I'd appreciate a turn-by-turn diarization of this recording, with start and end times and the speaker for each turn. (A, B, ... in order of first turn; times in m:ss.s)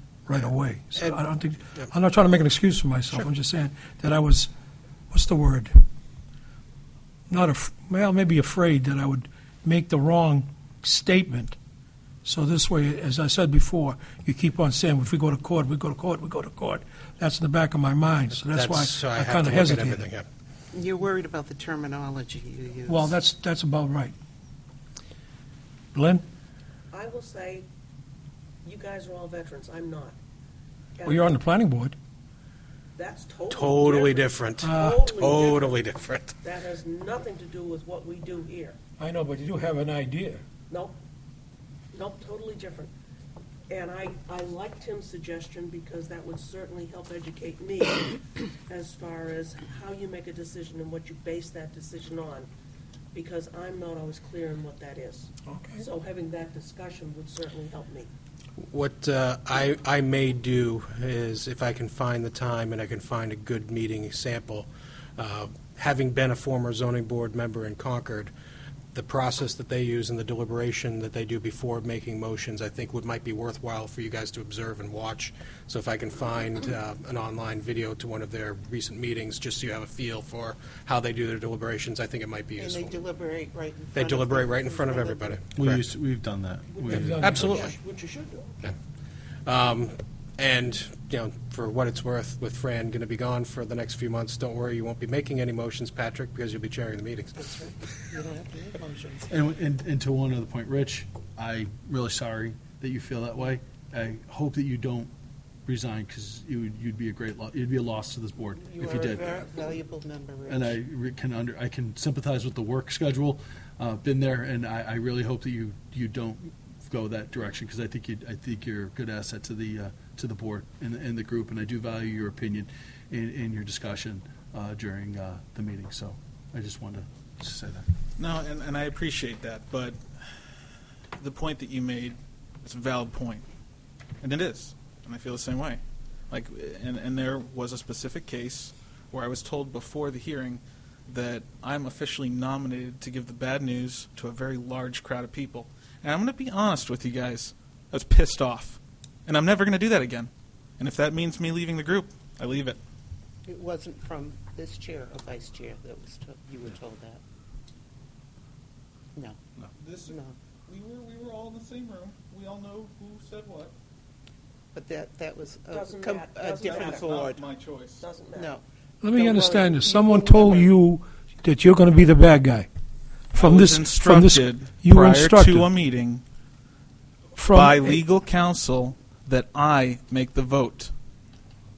0:00.3-0:04.5 A
0:05.1-0:05.8 A
0:07.3-0:11.6 A
0:12.2-0:20.1 A
0:18.4-0:20.3 B
0:20.7-0:23.1 C
0:22.9-0:24.2 A
0:25.9-0:26.2 A
0:26.9-0:27.6 D
0:28.6-0:30.2 D
0:31.0-0:31.4 D
0:31.1-0:32.0 A
0:33.0-0:35.8 D
0:33.5-0:36.4 B
0:34.6-0:35.3 A
0:36.4-0:38.8 D
0:39.0-0:40.4 A
0:40.7-0:41.0 D
0:41.9-0:42.9 D
0:43.7-0:52.5 D
0:53.1-0:58.1 D
0:55.5-0:55.8 A
0:58.6-1:08.3 B
1:08.9-1:23.0 B
1:22.6-1:25.4 C
1:23.9-1:25.8 B
1:25.5-1:27.4 E
1:26.7-1:28.6 D
1:26.9-1:27.4 A
1:27.2-1:27.7 B
1:27.5-1:27.8 C
1:29.5-1:38.1 B
1:37.4-1:39.4 C
1:39.3-1:45.1 E
1:45.7-1:49.4 E
1:48.6-1:50.8 C
1:50.5-2:07.9 E
2:08.2-2:10.0 F
2:11.2-2:13.4 F
2:14.2-2:32.8 F
2:33.4-2:37.2 C
2:39.8-2:43.7 F
2:40.0-2:40.4 C
2:44.7-2:47.1 C
2:45.7-2:47.2 D
2:46.6-2:48.0 F
2:47.9-2:48.6 D
2:48.3-2:50.7 C
2:49.0-2:52.7 A
2:53.3-2:55.7 A
2:53.4-2:56.2 F
2:57.4-2:58.0 A
2:57.5-3:00.9 F